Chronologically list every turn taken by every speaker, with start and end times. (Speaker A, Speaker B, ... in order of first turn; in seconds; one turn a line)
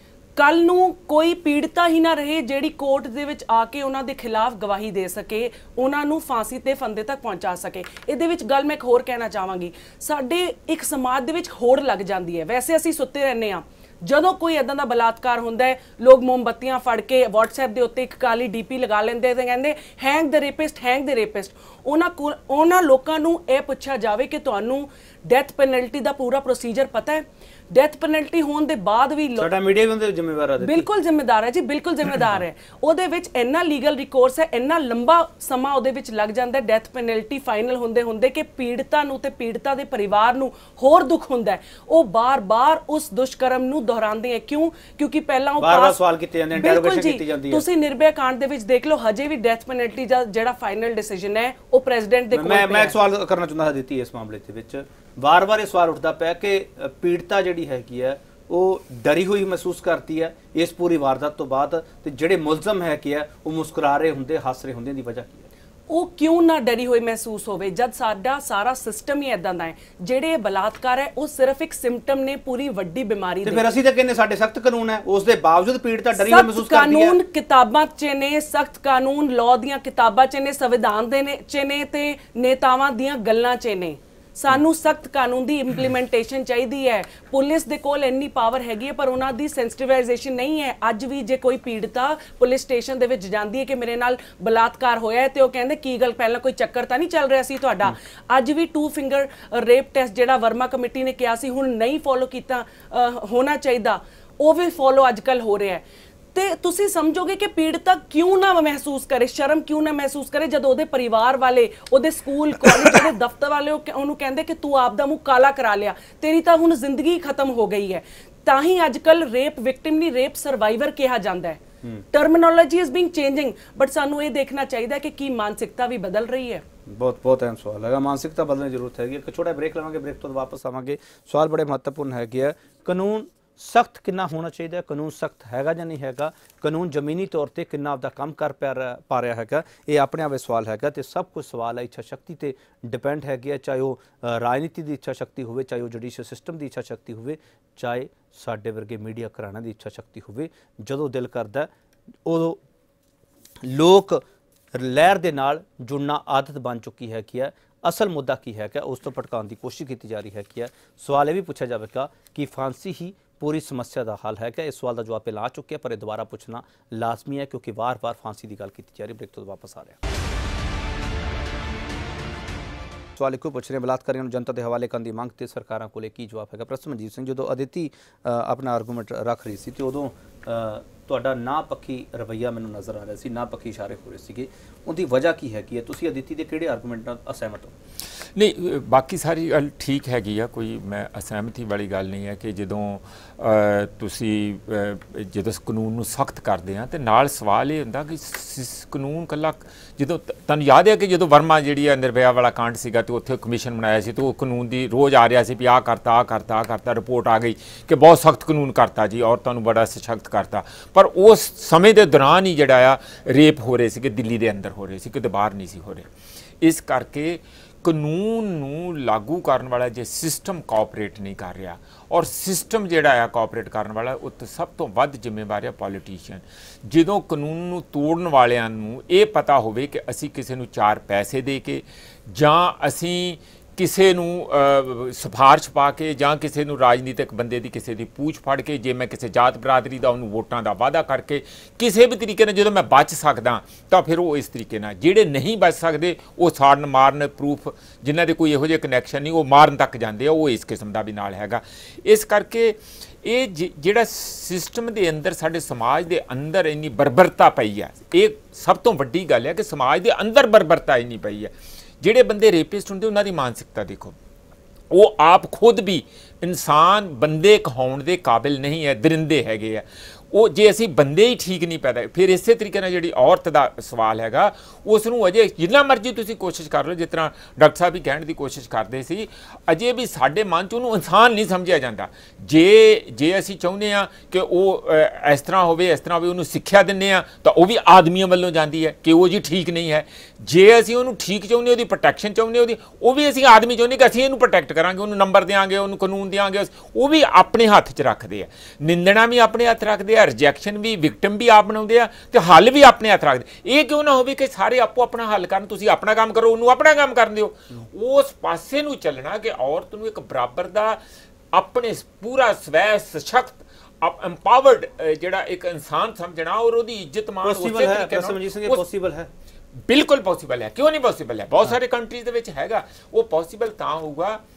Speaker A: 0.4-29.5
Speaker B: 29.4-30.9
Speaker A: 30.6-46.0
Speaker B: 45.6-47.6
Speaker A: 46.5-53.0
Speaker B: 52.3-65.5
Speaker A: 65.9-73.7
Speaker B: 73.4-77.2
Speaker A: 76.1-126.6
Speaker B: 112.6-113.0
Speaker B: 126.9-151.7
Speaker B: 152.3-152.6
Speaker B: 153.6-154.2
Speaker B: 154.8-170.0
Speaker B: 173.2-187.7
Speaker C: 188.3-216.1
Speaker C: 216.6-264.2
Speaker C: 264.9-311.0
Speaker C: 311.5-318.8
Speaker B: 317.4-319.3
Speaker C: 319.9-324.4